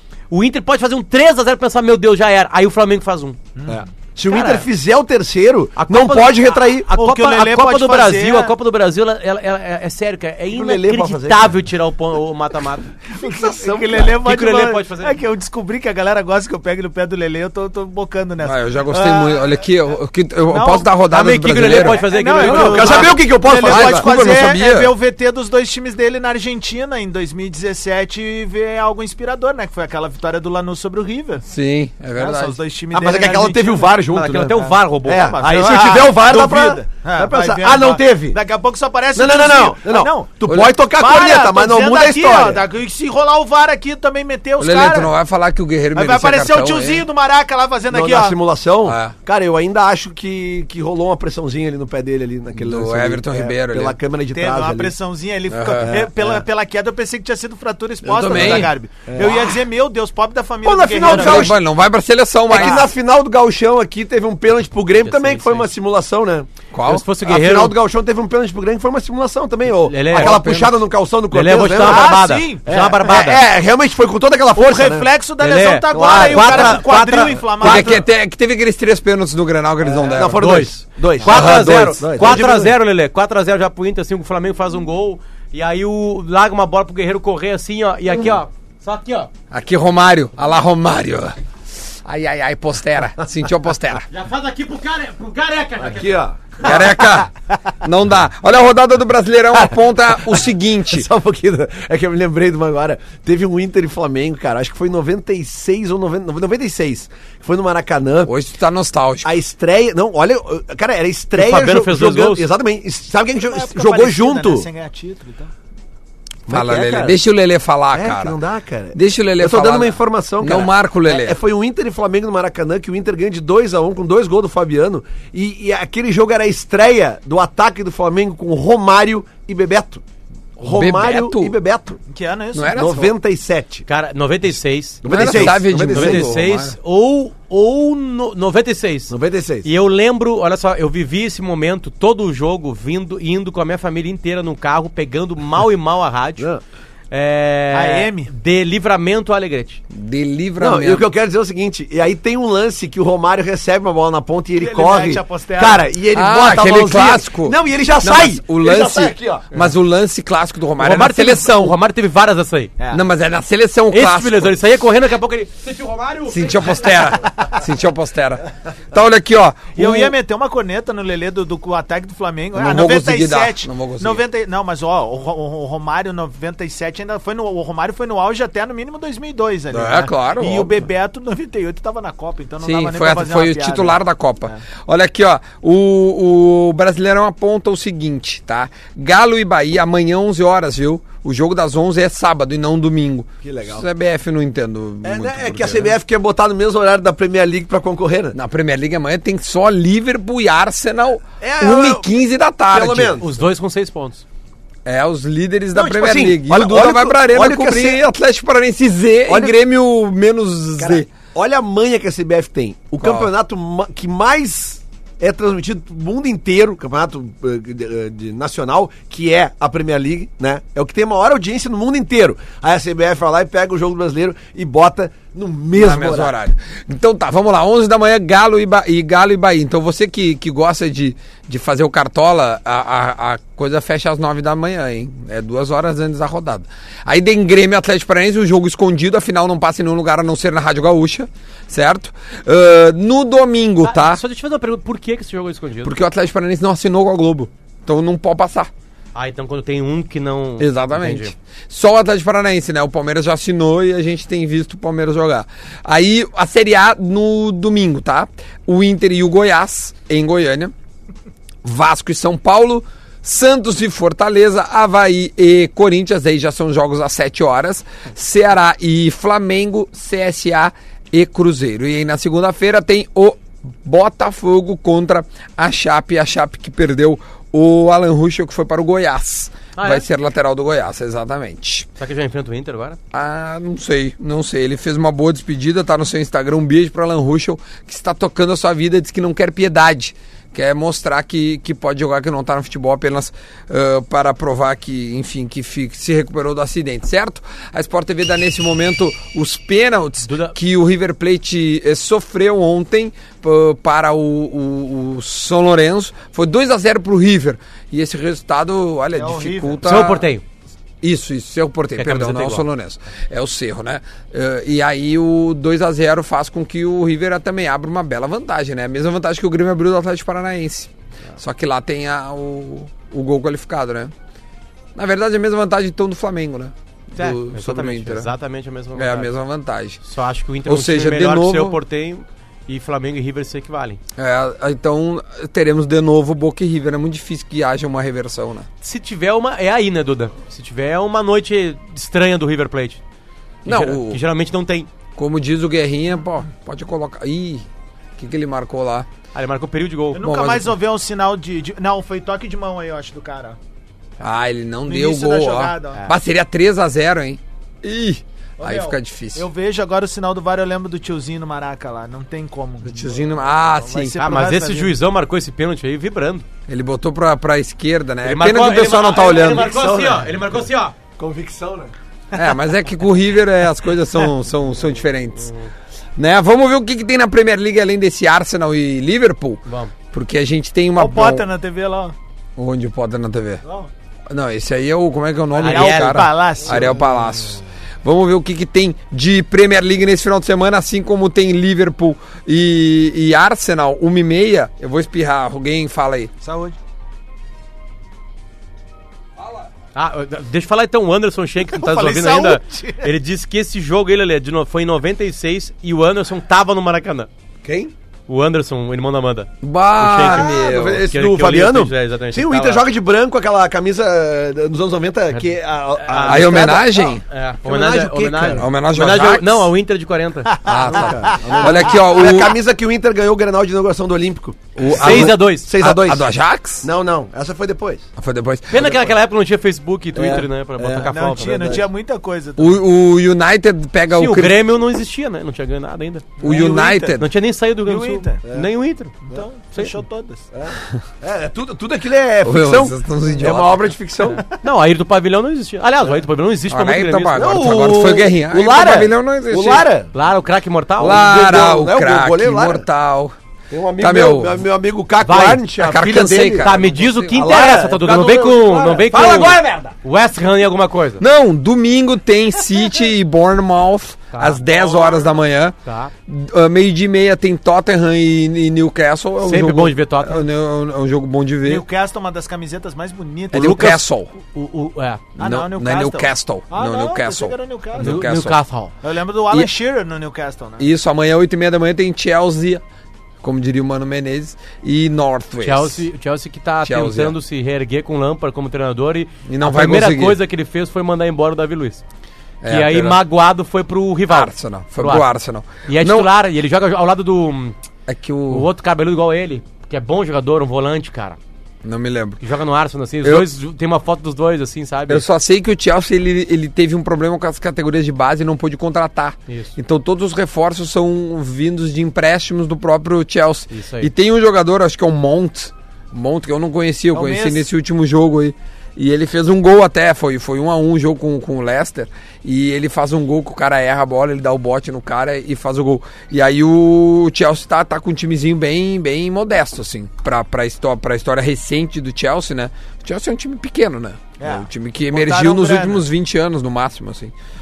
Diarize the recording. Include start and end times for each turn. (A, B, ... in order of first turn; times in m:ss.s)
0:00.3-0:03.4 A
0:03.6-0:03.8 B
0:03.7-0:06.9 C
0:04.3-0:04.7 A
0:05.8-0:13.0 A
0:06.9-0:08.6 B
0:10.5-0:11.5 C
0:13.1-0:19.4 B
0:13.1-0:14.2 C
0:14.2-0:15.2 A
0:18.4-0:22.1 D
0:20.5-0:20.9 B
0:21.1-0:23.2 A
0:21.7-0:31.4 B
0:22.4-0:24.1 C
0:23.6-0:24.9 D
0:31.4-0:32.6 D
0:32.2-0:34.0 B
0:32.9-0:38.4 C
0:34.1-0:35.4 A
0:34.6-0:45.1 B
0:39.2-0:42.6 C
0:44.6-0:47.0 D
0:45.9-0:48.4 B
0:47.9-0:54.9 C
0:48.8-0:49.2 D
0:52.5-0:54.0 D
0:54.3-1:01.6 B
0:55.5-0:56.0 D
0:55.8-0:56.4 C
0:58.0-0:58.7 D
0:58.3-0:59.6 C
1:00.6-1:01.6 C
1:01.0-1:02.9 D
1:02.5-1:06.5 C
1:02.5-1:02.9 B
1:05.0-1:05.7 A
1:06.7-1:07.0 D
1:06.8-1:07.8 A
1:07.2-1:15.1 C
1:09.7-1:10.4 A
1:10.1-1:10.8 D
1:11.3-1:13.4 A
1:11.8-1:12.9 B
1:14.6-1:18.0 B
1:15.4-1:17.4 A
1:15.9-1:18.0 C
1:17.6-1:20.6 D
1:19.8-1:22.8 C
1:20.3-1:29.3 A
1:21.2-1:21.8 D
1:29.5-1:31.4 D
1:32.0-1:34.1 D
1:34.1-1:36.2 A
1:35.8-1:36.9 C
1:36.6-1:41.1 D
1:40.2-1:48.3 C
1:48.2-1:49.4 D
1:49.2-1:54.7 C
1:51.3-1:52.5 A
1:53.4-1:55.5 B
1:56.5-1:57.2 C
1:56.5-1:58.4 D
1:57.9-2:10.0 C
1:58.9-2:01.4 D
2:10.6-2:12.0 C
2:10.6-2:11.6 D
2:12.1-2:12.9 B
2:12.5-2:13.1 D
2:12.7-2:13.8 C
2:13.9-2:26.5 A
2:15.0-2:16.4 C
2:15.0-2:16.8 D
2:19.1-2:19.7 C
2:27.1-2:29.8 A
2:27.7-2:28.3 B
2:29.9-2:31.0 D
2:30.6-2:39.5 C
2:34.6-2:35.8 B
2:36.1-2:41.8 D
2:40.8-2:42.7 A
2:42.9-2:44.6 D
2:43.9-2:47.0 A
2:46.3-2:50.2 D
2:49.8-3:04.6 B
2:52.6-2:54.2 D
2:59.7-3:00.7 D
3:02.6-3:16.0 D
3:13.4-3:13.9 C
3:15.0-3:18.4 C
3:18.3-3:23.2 D
3:21.4-3:22.1 C
3:22.7-3:23.3 C
3:23.2-3:24.2 A
3:24.8-3:31.1 D
3:25.7-3:28.0 C
3:29.3-3:29.5 C
3:30.8-3:46.3 C
3:33.0-3:33.3 D
3:45.7-4:04.2 D
4:03.8-4:06.0 A
4:05.8-4:08.7 D
4:09.2-4:11.3 A
4:10.6-4:20.7 D
4:21.6-4:41.9 D
4:39.8-4:40.1 A
4:42.0-4:43.0 A
4:43.1-5:10.3 D
5:00.2-5:00.6 A
5:09.1-5:09.9 B
5:09.8-5:10.4 A
5:11.0-5:24.1 D
5:12.0-5:12.7 A
5:25.0-5:28.3 D
5:27.2-5:29.3 A
5:29.0-5:30.0 D
5:30.0-5:34.0 A
5:30.7-5:31.8 D
5:34.2-5:38.7 D
5:38.8-5:43.0 A
5:43.6-5:44.2 D
5:43.7-5:44.9 A
5:45.2-5:47.7 D
5:48.2-5:49.1 D
5:49.3-5:50.2 A
5:50.1-5:53.6 B
5:50.2-5:50.8 D
5:54.2-5:59.5 D
5:54.8-5:56.1 B
5:58.6-6:03.2 B
6:02.8-6:04.2 D
6:03.8-6:05.0 B
6:04.2-6:06.5 A
6:06.7-6:09.8 D
6:08.2-6:11.0 A
6:09.2-6:10.6 C
6:11.2-6:11.9 C
6:12.3-6:15.5 D
6:16.2-6:21.4 D
6:19.7-6:19.9 A
6:21.0-6:22.2 B
6:22.6-6:23.6 D
6:23.6-6:23.9 B
6:24.3-6:36.3 D
6:25.6-6:26.3 A
6:25.6-6:27.0 B
6:36.4-6:36.8 B
6:39.9-6:47.3 A
6:41.6-6:43.1 B
6:47.6-6:47.9 C
6:48.3-6:52.9 A
6:49.6-6:51.1 D
6:50.2-6:58.7 C
6:55.3-7:00.6 A
6:56.2-6:57.2 D
6:58.5-6:59.7 D
7:00.5-7:02.0 B
7:00.6-7:02.6 D
7:00.9-7:06.3 C
7:04.8-7:06.9 D
7:04.9-7:05.7 A
7:06.8-7:08.1 C
7:08.2-7:09.1 D
7:08.7-7:11.8 A
7:10.2-7:11.8 C
7:11.1-7:12.8 B
7:12.6-7:14.6 D
7:14.1-7:20.0 A
7:16.4-7:17.2 B
7:16.4-7:17.3 D
7:17.8-7:18.4 B
7:18.4-7:18.7 C
7:19.3-7:20.4 B
7:20.5-7:24.5 C
7:22.4-7:23.9 D
7:24.3-7:27.5 A
7:26.7-7:29.9 D
7:27.3-7:30.1 C
7:30.1-7:31.3 A
7:31.0-7:32.9 C
7:31.0-7:33.4 D
7:33.7-7:36.7 C
7:34.0-7:34.6 D
7:35.2-7:35.6 A
7:35.8-7:37.7 D
7:36.5-7:41.2 A
7:37.3-7:40.0 C
7:41.2-7:45.8 D
7:44.3-7:44.7 A
7:44.8-7:45.2 B
7:45.8-7:46.1 A
7:46.3-7:51.8 D
7:49.4-7:50.5 A
7:51.6-7:54.0 B
7:53.5-7:54.3 D
7:53.6-7:55.3 A
7:55.4-7:58.3 B
7:55.4-7:58.6 D
7:58.0-7:58.9 A
7:59.0-8:00.9 B
8:00.8-8:02.8 D
8:03.4-8:06.1 D
8:05.6-8:12.0 A
8:06.8-8:07.4 D
8:09.5-8:10.4 D
8:12.6-8:13.2 D
8:12.7-8:15.3 A
8:14.3-8:16.3 D
8:15.9-8:17.8 A
8:18.1-8:18.7 D
8:18.5-8:21.4 A
8:21.8-8:22.4 D
8:22.4-8:25.3 A
8:25.1-8:57.3 D
8:29.5-8:29.8 A
8:33.7-8:34.1 A
8:37.1-8:37.7 B
8:54.4-8:56.0 B